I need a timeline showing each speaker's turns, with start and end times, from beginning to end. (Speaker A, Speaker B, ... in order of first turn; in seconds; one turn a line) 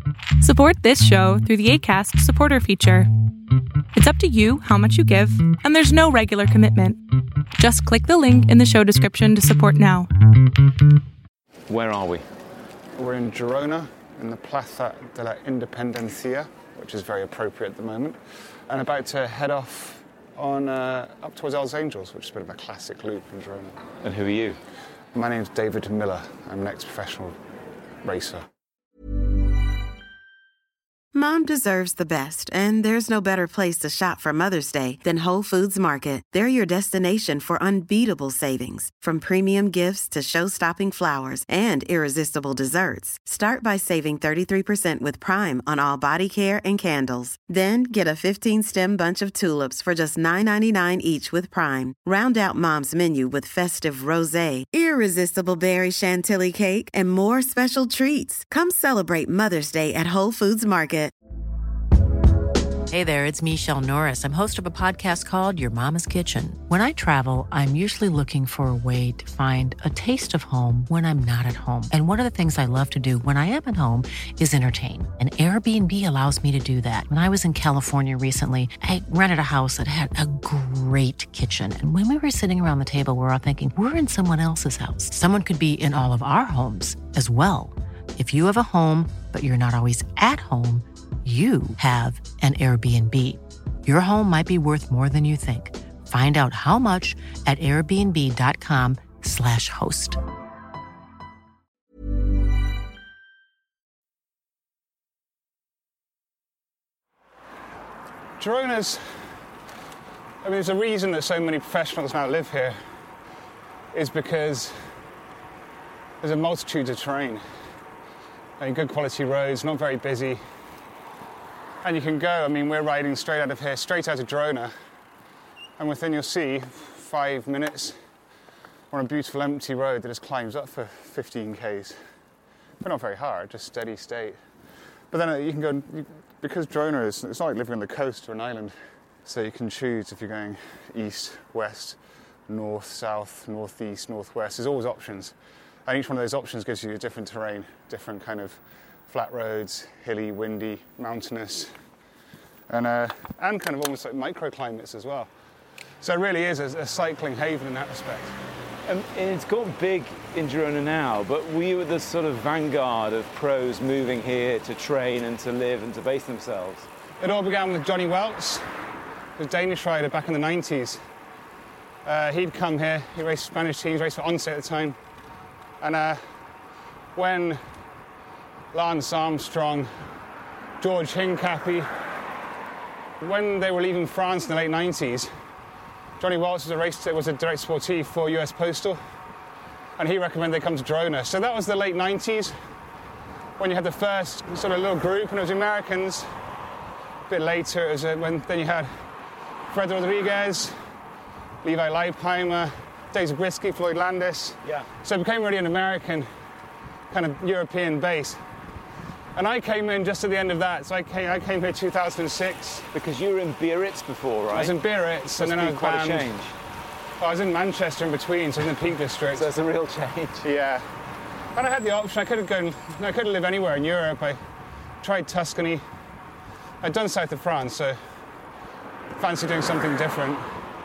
Speaker A: 0.4-3.1
Speaker A: 3.9-7.0
Speaker A: 7.6-10.1
Speaker B: 11.7-12.3
Speaker C: 13.0-23.8
Speaker B: 24.0-24.6
Speaker C: 25.1-27.4
Speaker C: 28.0-28.5
Speaker D: 31.1-61.1
Speaker E: 62.9-100.2
Speaker C: 108.4-109.3
Speaker C: 110.4-112.8
Speaker C: 113.9-114.9
Speaker C: 116.2-117.4
Speaker C: 118.6-120.4
Speaker C: 121.8-124.7
Speaker C: 125.8-128.0
Speaker C: 128.9-132.0
Speaker C: 132.8-134.4
Speaker C: 135.1-138.8
Speaker C: 139.3-142.0
Speaker C: 142.5-145.3
Speaker C: 145.9-151.8
Speaker C: 152.7-155.3
Speaker C: 156.0-158.4
Speaker B: 158.9-166.9
Speaker C: 167.2-168.7
Speaker C: 169.4-171.0
Speaker C: 172.1-175.0
Speaker C: 175.8-176.2
Speaker C: 177.2-177.6
Speaker C: 178.7-179.9
Speaker C: 180.8-182.1
Speaker C: 183.2-185.3
Speaker C: 186.2-189.0
Speaker C: 190.0-192.6
Speaker C: 193.6-196.3
Speaker C: 197.3-199.1
Speaker C: 199.7-200.8
Speaker C: 201.6-206.3
Speaker B: 204.6-204.9
Speaker C: 207.1-208.4
Speaker C: 209.3-212.9
Speaker B: 212.9-214.8
Speaker C: 214.5-216.3
Speaker B: 215.4-216.6
Speaker C: 217.2-219.5
Speaker B: 219.3-220.5
Speaker C: 220.4-220.9
Speaker C: 221.6-224.4
Speaker C: 225.0-225.8
Speaker C: 226.8-228.0
Speaker C: 229.2-230.5